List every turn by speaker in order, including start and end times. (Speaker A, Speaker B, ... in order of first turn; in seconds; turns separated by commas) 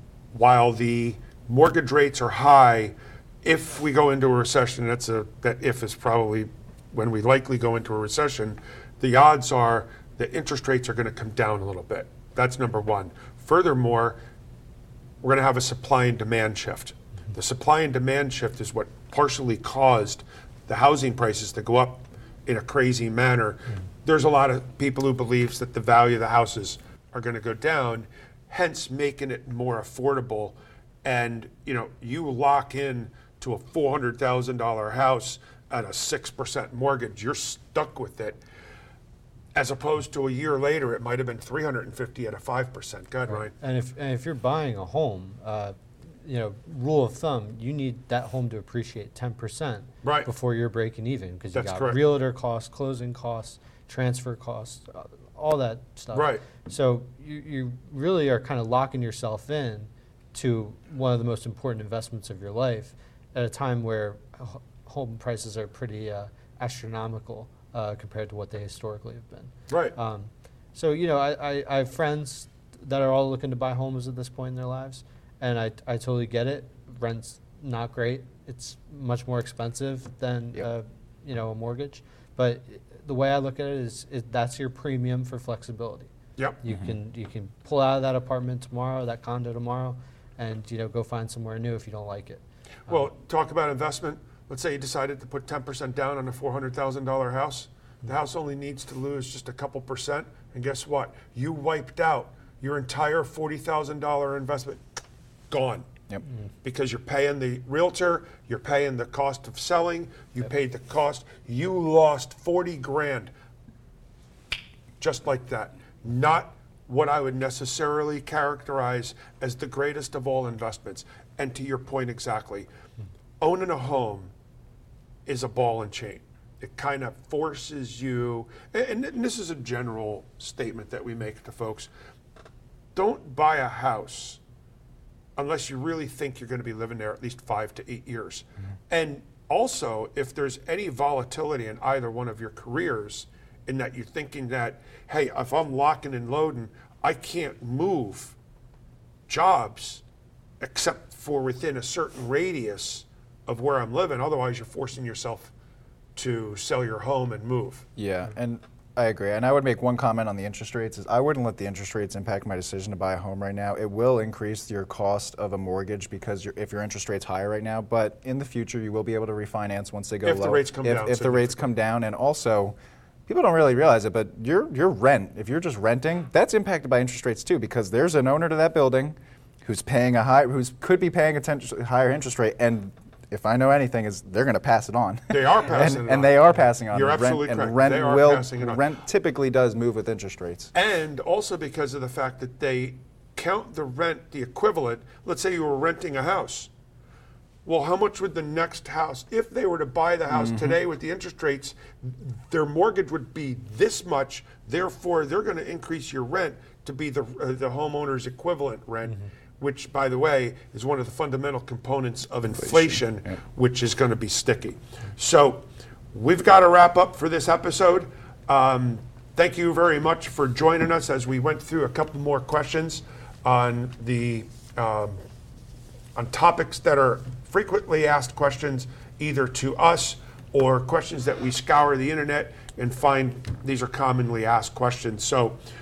Speaker A: 0.3-14.2, Speaker A: 15.2-38.4, Speaker A: 39.5-43.5, Speaker B: 43.3-86.1, Speaker A: 51.5-52.0, Speaker A: 56.1-56.4, Speaker A: 69.7-70.0, Speaker B: 86.6-93.0, Speaker C: 86.7-87.0, Speaker A: 92.9-104.8, Speaker A: 105.5-105.9, Speaker A: 106.6-113.3, Speaker A: 115.0-122.7, Speaker A: 123.4-124.3, Speaker A: 125.3-131.9, Speaker A: 132.9-134.4, Speaker A: 135.4-148.4, Speaker A: 149.3-150.0, Speaker A: 150.6-155.5, Speaker A: 156.2-157.9, Speaker C: 158.0-172.8, Speaker A: 170.2-171.7, Speaker C: 173.3-190.7, Speaker A: 185.3-188.9, Speaker A: 190.7-196.7, Speaker A: 197.7-225.2, Speaker C: 200.3-200.8, Speaker C: 212.6-213.0, Speaker A: 226.2-235.6